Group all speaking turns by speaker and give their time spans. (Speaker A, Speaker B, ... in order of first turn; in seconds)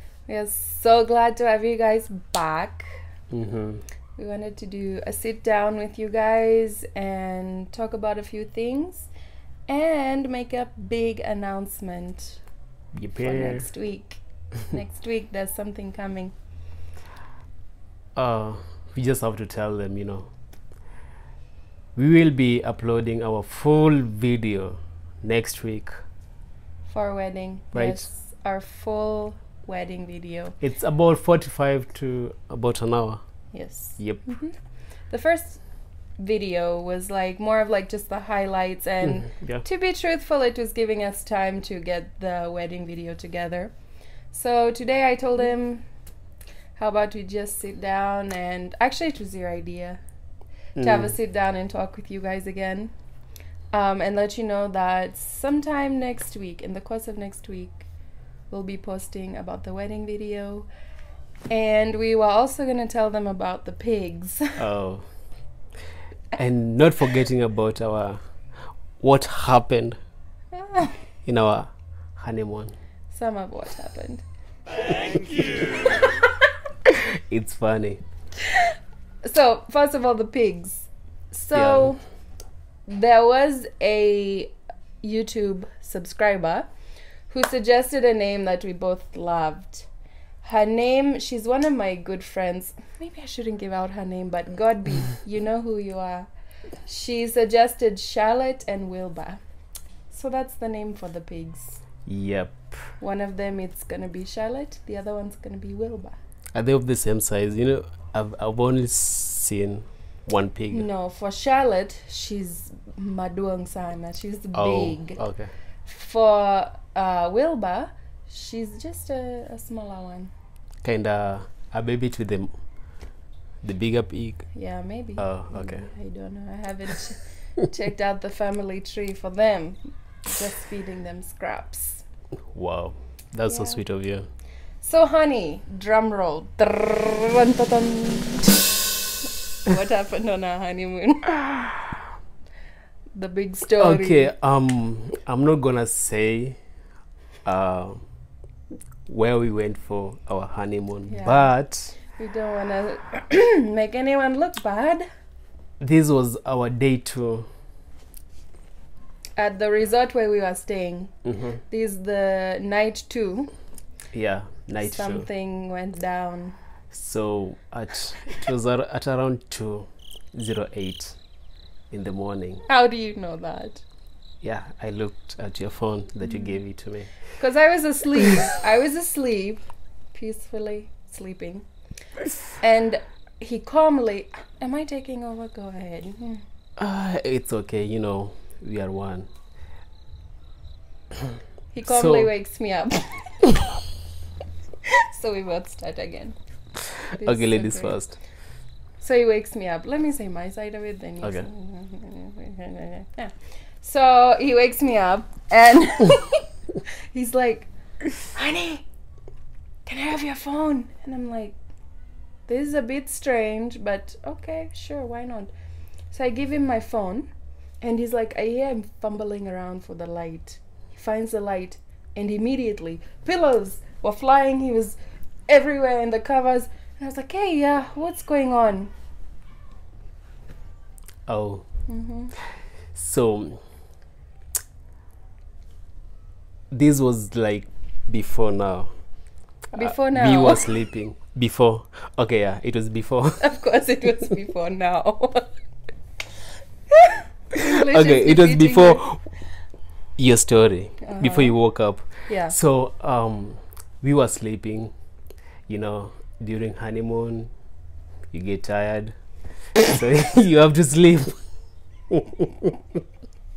Speaker A: 0.3-2.9, 4.2-9.1, 9.7-12.4, 13.2-16.3, 26.9-30.6, 33.5-34.6, 35.1-35.6, 36.2-43.7, 44.3-45.8, 46.8-50.0, 50.8-52.9, 53.7-57.9, 58.5-60.7, 61.5-64.6, 70.5-71.0, 73.1-74.2, 75.2-76.3, 79.2-82.0, 82.9-86.7, 87.3-89.9, 90.4-96.3, 96.9-99.4, 100.1-101.8, 103.0-106.2, 110.7-115.2, 115.9-120.3, 124.5-132.0, 133.5-133.8, 134.8-138.9, 139.7-141.4, 143.2-144.3, 151.1-151.5, 152.1-155.1, 159.4-161.1, 161.7-163.5, 164.8-166.6, 172.7-173.8, 177.4-181.7, 182.6-186.4, 191.7-193.8, 194.9-196.4, 197.1-198.0, 199.0-206.5, 207.1-207.7, 208.2-208.8, 209.9-211.6, 212.5-215.5, 216.1-217.3, 217.8-225.0, 225.5-228.9, 231.9-232.3, 239.7-240.7, 243.4-245.5, 246.9-249.0, 251.0-251.6, 252.2-252.5
Speaker B: 3.3-3.8, 12.9-13.7, 18.2-20.3, 22.0-26.0, 27.7-28.1, 30.6-33.2, 34.0-34.2, 39.0-39.6, 50.8-51.2, 64.6-65.1, 66.4-68.2, 69.0-70.0, 71.2-72.7, 76.9-78.0, 81.5-82.0, 102.1-102.9, 106.5-110.9, 114.5-115.5, 120.8-122.5, 123.6-124.5, 125.2-125.9, 132.5-134.3, 143.8-146.6, 147.4-148.0, 149.1-152.0, 155.8-157.5, 161.3-161.6, 164.1-165.3, 166.9-171.2, 171.9-172.7, 174.4-177.1, 186.8-189.3, 191.9-192.3, 197.2-198.2, 201.2-201.5, 231.3-231.7, 232.9-233.6, 236.7-238.9, 239.8-243.4, 247.8-249.2, 250.2-254.9, 255.7-257.5, 258.3-259.1, 259.8-261.4, 262.1-262.8